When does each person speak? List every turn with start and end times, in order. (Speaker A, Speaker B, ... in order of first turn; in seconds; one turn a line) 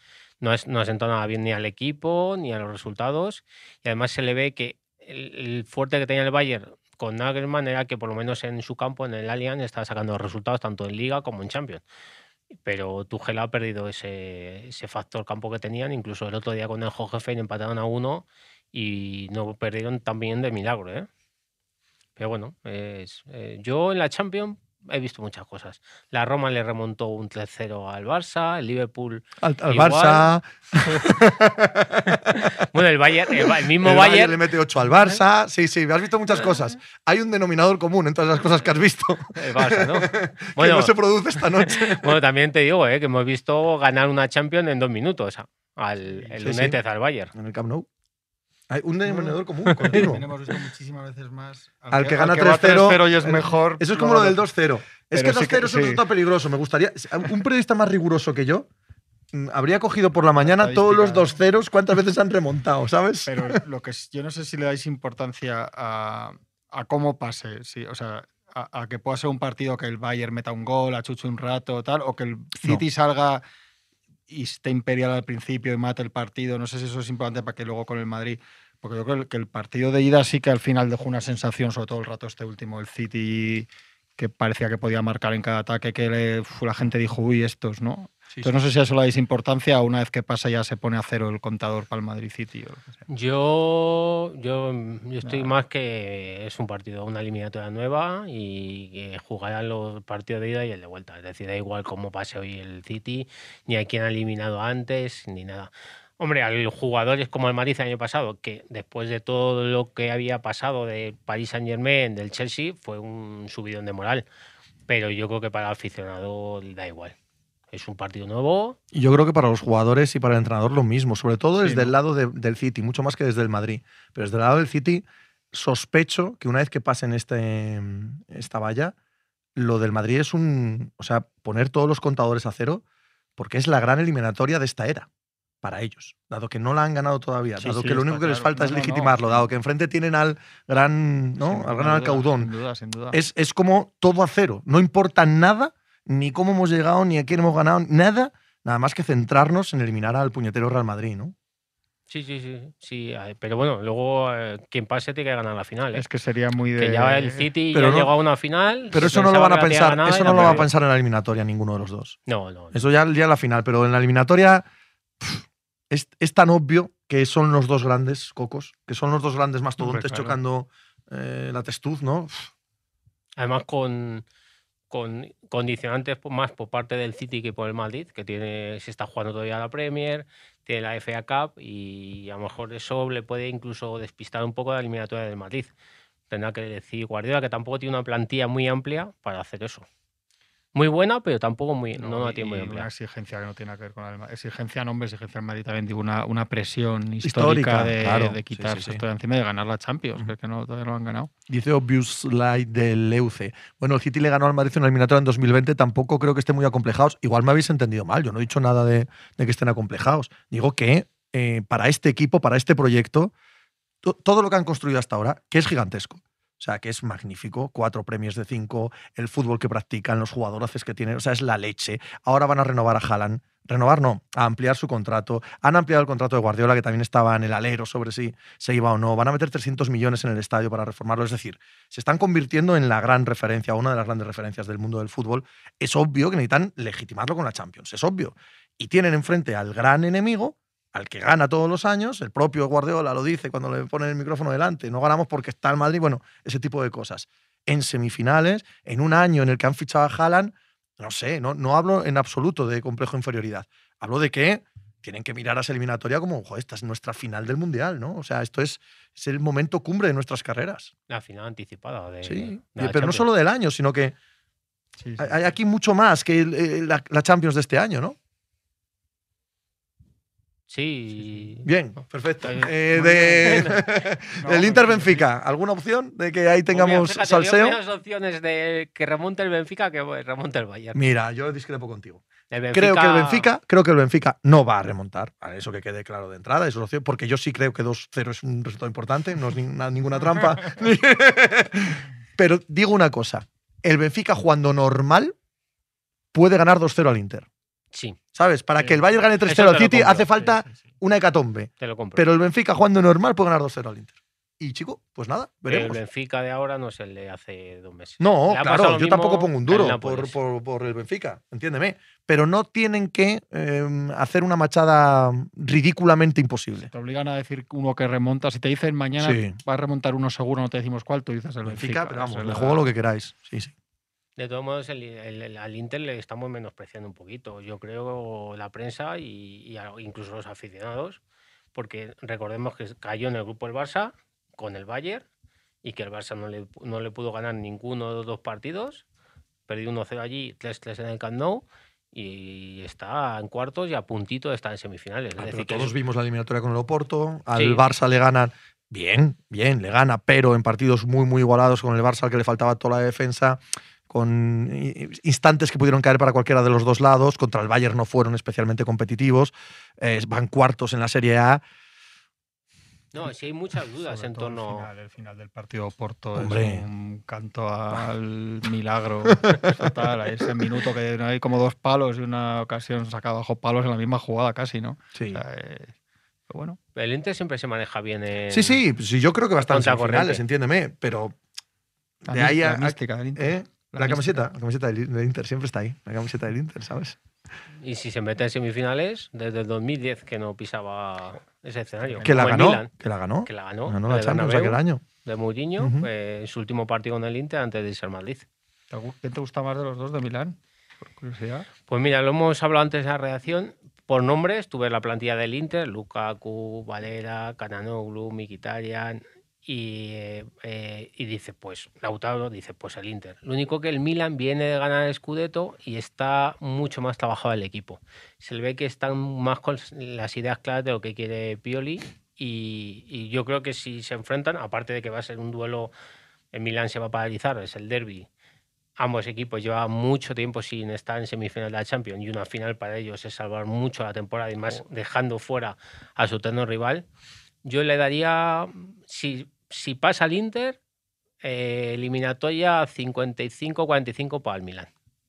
Speaker A: 0.4-11.8
Speaker A: 12.6-21.1
Speaker A: 22.2-30.3
Speaker B: 29.4-32.2
Speaker A: 32.3-34.5
Speaker B: 33.3-42.2
Speaker A: 39.4-47.3
Speaker C: 46.0-46.4
Speaker B: 46.4-46.8
Speaker B: 47.3-47.9
Speaker B: 48.7-50.3
Speaker C: 49.0-56.0
Speaker B: 51.9-58.7
Speaker B: 59.3-63.6
Speaker C: 60.4-61.4
Speaker C: 63.2-73.4
Speaker C: 74.3-83.7
Speaker C: 84.2-93.0
Speaker A: 93.1-114.2
Speaker C: 95.2-95.6
Speaker A: 114.9-117.1
Speaker A: 117.7-118.8
Speaker B: 118.9-128.9
Speaker C: 121.6-121.9
Speaker B: 129.6-132.8
Speaker B: 133.4-135.1
Speaker B: 135.6-142.5
Speaker C: 137.6-139.5
Speaker C: 141.4-143.2
Speaker B: 143.1-151.3
Speaker A: 152.1-156.1
Speaker C: 155.9-157.5
Speaker A: 156.8-160.7
Speaker B: 157.7-158.1
Speaker B: 158.9-162.2
Speaker C: 160.2-160.6
Speaker A: 162.2-162.8
Speaker B: 162.7-164.7
Speaker B: 165.2-172.5
Speaker C: 169.8-170.4
Speaker A: 173.4-174.2
Speaker A: 174.9-185.7
Speaker A: 186.3-189.8
Speaker A: 190.7-192.9
Speaker C: 191.9-201.3
Speaker B: 197.2-199.0
Speaker B: 201.5-213.3
Speaker B: 214.0-260.9
Speaker A: 261.1-263.3
Speaker B: 262.2-264.1
Speaker C: 265.0-265.4
Speaker B: 265.2-268.1
Speaker A: 270.7-271.7
Speaker C: 271.1-271.5
Speaker B: 271.6-277.8
Speaker A: 272.4-273.9
Speaker C: 273.1-273.5
Speaker C: 274.4-275.2
Speaker A: 276.7-281.1
Speaker B: 280.9-295.3
Speaker A: 282.5-283.5
Speaker B: 296.3-297.5
Speaker A: 297.9-298.2
Speaker B: 298.3-306.0
Speaker C: 298.8-299.1
Speaker A: 299.4-300.3
Speaker C: 300.4-300.8
Speaker A: 301.8-302.3
Speaker A: 305.6-310.4
Speaker B: 308.2-316.9
Speaker C: 316.8-322.9
Speaker B: 319.2-319.6
Speaker B: 321.6-323.7
Speaker A: 324.4-331.2
Speaker A: 331.7-335.2
Speaker A: 335.8-339.0
Speaker A: 339.7-345.9
Speaker B: 345.4-361.6
Speaker A: 347.5-347.8
Speaker A: 363.1-364.9
Speaker C: 364.0-375.9
Speaker B: 366.4-366.9
Speaker B: 369.4-370.0
Speaker B: 375.1-375.4
Speaker C: 376.5-376.8
Speaker A: 376.9-378.8
Speaker B: 378.5-381.4
Speaker A: 379.7-380.4
Speaker B: 382.2-387.2
Speaker C: 382.3-384.5
Speaker A: 387.8-392.9
Speaker C: 392.0-392.3
Speaker B: 392.2-395.0
Speaker A: 393.4-398.4
Speaker B: 395.8-396.1
Speaker C: 398.9-401.7
Speaker A: 401.9-425.9
Speaker A: 426.5-428.3
Speaker A: 429.0-437.1
Speaker A: 437.6-440.8
Speaker A: 441.4-444.9